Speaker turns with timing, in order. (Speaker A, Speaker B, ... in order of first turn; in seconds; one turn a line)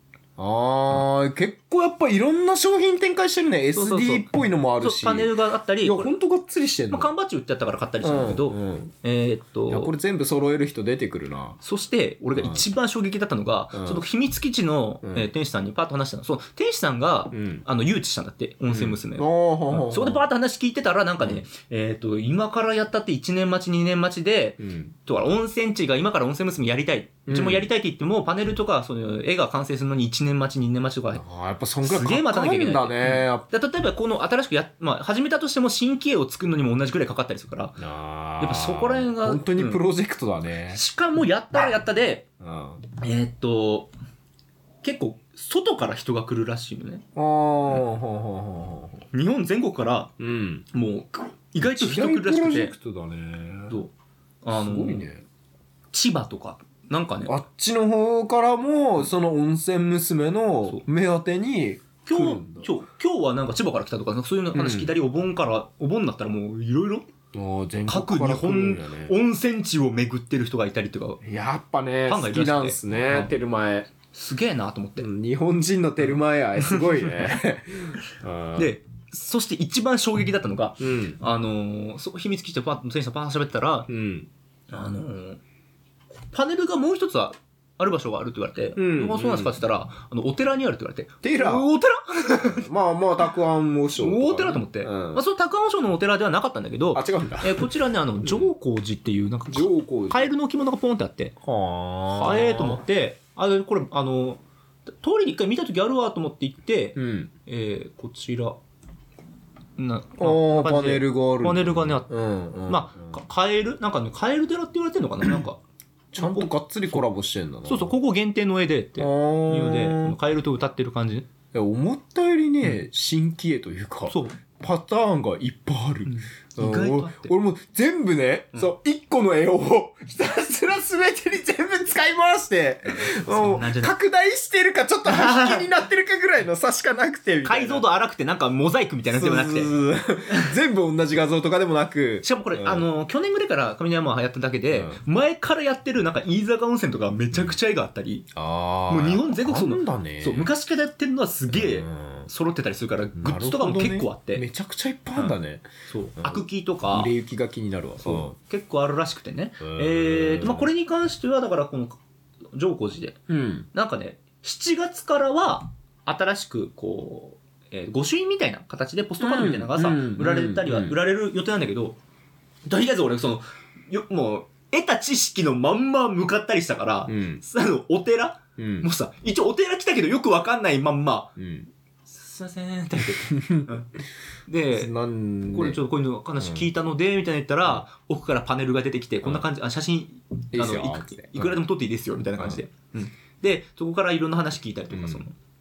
Speaker A: 0.4-7.1
Speaker B: 3.7-4.3
Speaker B: 4.8-6.1
Speaker B: 6.9-9.9
Speaker A: 8.0-8.9
Speaker A: 9.7-11.6
Speaker B: 11.6-31.2
Speaker A: 12.4-12.6
Speaker A: 13.7-14.0
Speaker A: 15.0-15.3
Speaker A: 17.3-17.6
Speaker A: 18.7-20.3
Speaker A: 24.6-24.9
Speaker A: 27.3-27.7
Speaker A: 31.1-33.5
Speaker B: 31.8-37.9
Speaker A: 37.8-40.8
Speaker B: 38.4-39.8
Speaker B: 40.7-42.3
Speaker A: 42.4-42.8
Speaker B: 43.0-43.9
Speaker B: 44.8-47.0
Speaker A: 47.2-49.1
Speaker B: 49.1-50.1
Speaker A: 50.2-50.7
Speaker B: 50.7-52.7
Speaker A: 51.6-53.8
Speaker B: 54.4-55.1
Speaker A: 54.5-55.2
Speaker B: 55.9-57.4
Speaker A: 57.3-62.7
Speaker B: 62.0-67.1
Speaker A: 64.5-64.9
Speaker A: 67.3-69.2
Speaker B: 67.9-71.2
Speaker A: 71.2-73.9
Speaker B: 72.1-73.3
Speaker B: 74.1-75.1
Speaker A: 75.0-78.7
Speaker B: 76.6-77.2
Speaker B: 78.6-83.9
Speaker A: 80.8-81.2
Speaker A: 83.9-84.3
Speaker B: 84.7-85.4
Speaker B: 86.3-92.7
Speaker A: 88.8-89.5
Speaker A: 91.2-91.7
Speaker A: 92.3-95.2
Speaker B: 94.0-101.4
Speaker A: 96.9-97.7
Speaker A: 98.2-98.5
Speaker A: 99.5-100.3
Speaker A: 101.4-102.8
Speaker B: 102.1-104.4
Speaker B: 105.0-108.6
Speaker A: 107.0-107.3
Speaker B: 109.8-112.1
Speaker A: 110.2-113.2
Speaker B: 112.7-115.6
Speaker A: 116.1-117.9
Speaker B: 116.2-117.0
Speaker B: 117.7-121.3
Speaker A: 119.0-120.2
Speaker A: 121.5-137.8
Speaker B: 124.1-124.4
Speaker B: 126.1-127.3
Speaker B: 132.9-134.0
Speaker B: 135.1-135.7
Speaker B: 137.4-139.8
Speaker A: 139.1-142.9
Speaker B: 142.2-148.3
Speaker A: 144.7-145.0
Speaker A: 148.3-150.5
Speaker B: 148.9-154.4
Speaker A: 151.5-152.3
Speaker A: 153.2-155.7
Speaker B: 155.9-157.1
Speaker A: 156.2-158.3
Speaker B: 158.0-162.0
Speaker A: 159.6-160.7
Speaker B: 162.5-163.2
Speaker A: 163.3-163.7
Speaker B: 163.7-172.0
Speaker A: 169.2-171.0
Speaker B: 172.7-181.4
Speaker A: 177.1-177.4
Speaker A: 178.6-178.9
Speaker A: 181.4-181.7
Speaker B: 182.1-183.9
Speaker A: 183.3-183.7
Speaker B: 184.5-184.9
Speaker A: 184.7-185.8
Speaker B: 185.5-195.3
Speaker A: 186.4-186.7
Speaker A: 190.5-191.6
Speaker A: 194.9-195.2